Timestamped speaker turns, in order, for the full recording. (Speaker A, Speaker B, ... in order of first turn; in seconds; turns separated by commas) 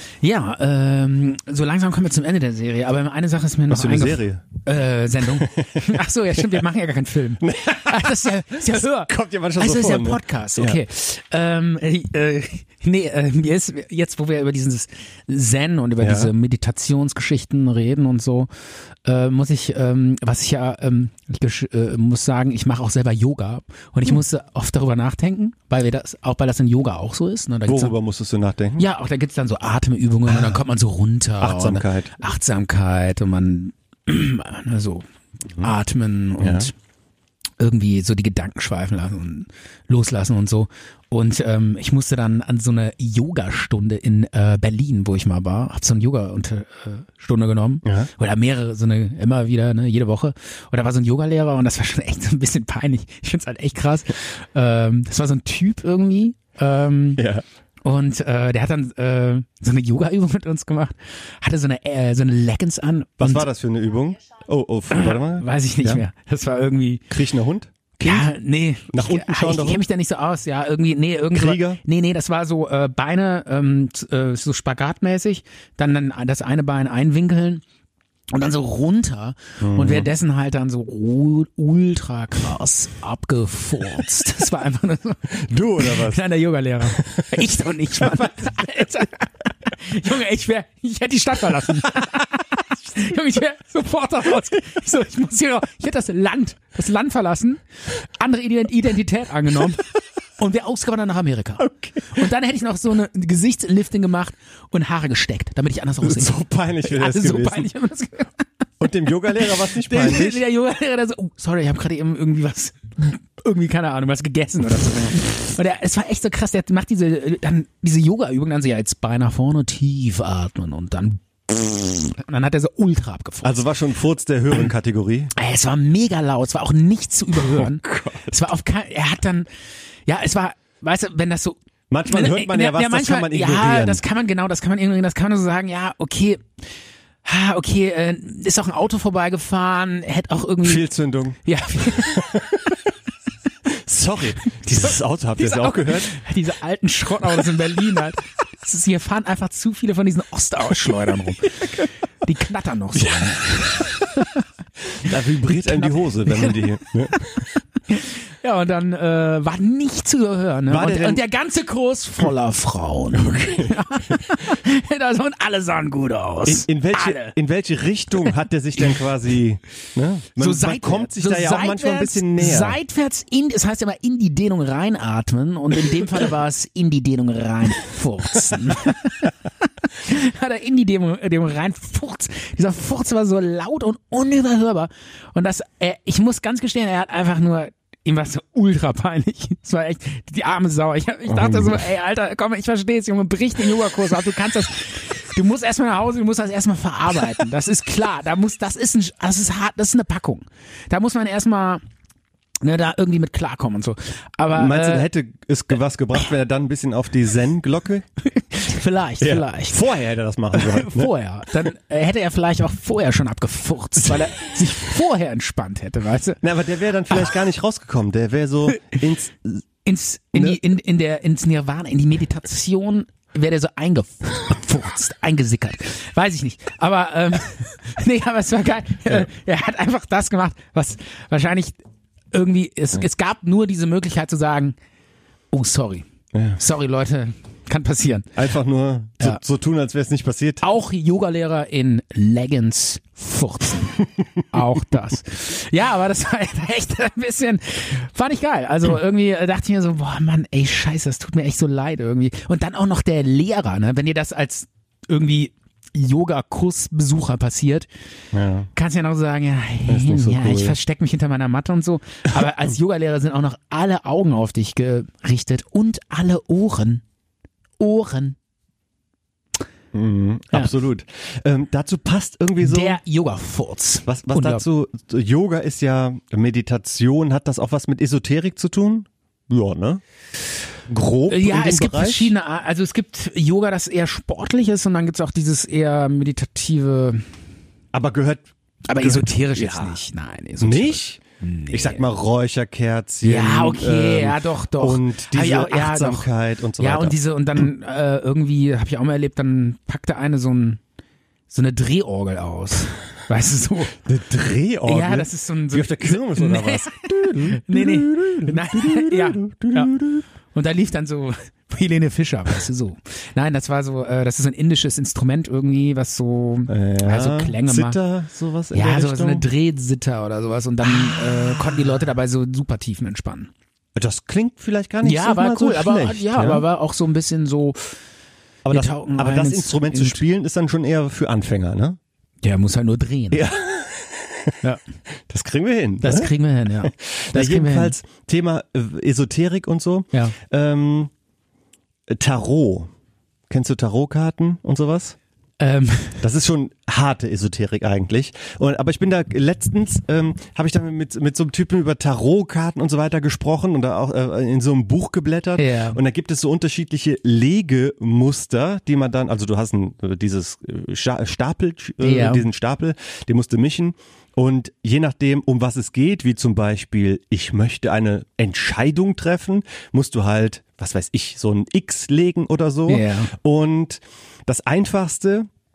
Speaker A: 0.2-18.5, Speaker B: 3.7-4.4, Speaker B: 5.4-6.0, Speaker B: 7.4-10.8, Speaker B: 16.0-16.3, Speaker A: 19.1-27.9, Speaker B: 27.7-28.8, Speaker A: 28.8-35.0, Speaker B: 30.3-30.6, Speaker B: 31.4-32.1, Speaker A: 35.6-36.7, Speaker B: 36.4-36.7, Speaker A: 37.6-57.2, Speaker B: 47.8-48.1, Speaker B: 57.2-57.4, Speaker A: 57.8-63.5, Speaker B: 63.2-66.0, Speaker A: 64.9-67.1, Speaker B: 67.1-68.3, Speaker A: 68.0-77.6, Speaker B: 68.9-69.8, Speaker B: 71.3-71.8, Speaker A: 78.3-99.8, Speaker B: 79.6-80.1, Speaker B: 85.3-86.2, Speaker B: 87.0-87.4, Speaker B: 88.0-88.3, Speaker A: 100.4-108.3, Speaker B: 101.6-102.2, Speaker B: 106.0-107.7, Speaker B: 108.8-110.4, Speaker A: 109.7-123.6, Speaker B: 123.4-125.3, Speaker A: 125.3-129.5, Speaker B: 127.4-128.3, Speaker A: 130.1-136.4, Speaker B: 131.9-134.0, Speaker A: 137.2-140.8, Speaker B: 140.6-141.4, Speaker A: 141.4-142.3, Speaker B: 141.9-142.8, Speaker B: 143.7-146.2, Speaker A: 144.6-154.4, Speaker B: 153.0-153.3, Speaker B: 154.9-157.4, Speaker A: 155.1-157.2, Speaker A: 157.9-167.3, Speaker B: 160.7-161.2, Speaker B: 163.2-163.7, Speaker B: 166.4-172.8, Speaker A: 170.4-179.3, Speaker A: 179.8-201.8, Speaker B: 191.3-191.8, Speaker A: 202.6-205.1, Speaker B: 204.5-208.1, Speaker A: 208.3-209.8, Speaker B: 209.2-211.1, Speaker A: 210.5-216.4, Speaker B: 216.4-219.6, Speaker A: 219.8-231.8, Speaker B: 220.3-220.6, Speaker A: 232.3-234.8, Speaker A: 235.5-236.1, Speaker B: 236.3-236.6, Speaker A: 236.6-238.3, Speaker B: 238.3-240.6, Speaker A: 240.6-257.9, Speaker B: 258.3-258.7, Speaker A: 258.7-267.0, Speaker B: 259.9-260.8, Speaker A: 267.8-268.4, Speaker B: 269.9-273.0, Speaker A: 272.6-274.6, Speaker B: 274.1-280.0, Speaker B: 280.9-282.3, Speaker A: 281.3-287.2, Speaker B: 287.9-290.0, Speaker A: 288.9-292.0, Speaker B: 290.6-291.2, Speaker B: 291.7-297.2, Speaker A: 293.2-300.8, Speaker A: 301.5-303.9, Speaker B: 304.0-310.2, Speaker A: 304.9-309.9, Speaker A: 310.5-318.0, Speaker B: 316.7-319.5, Speaker A: 318.7-323.5, Speaker B: 323.9-326.6, Speaker A: 325.0-327.9, Speaker B: 328.6-332.0, Speaker A: 328.7-330.2, Speaker A: 332.4-333.4, Speaker B: 333.3-334.6, Speaker B: 335.3-341.1, Speaker A: 336.0-337.9, Speaker B: 342.1-342.9, Speaker B: 343.5-345.2, Speaker A: 345.6-346.2, Speaker B: 346.2-375.5, Speaker A: 355.6-356.0, Speaker A: 362.0-362.4, Speaker A: 372.9-373.3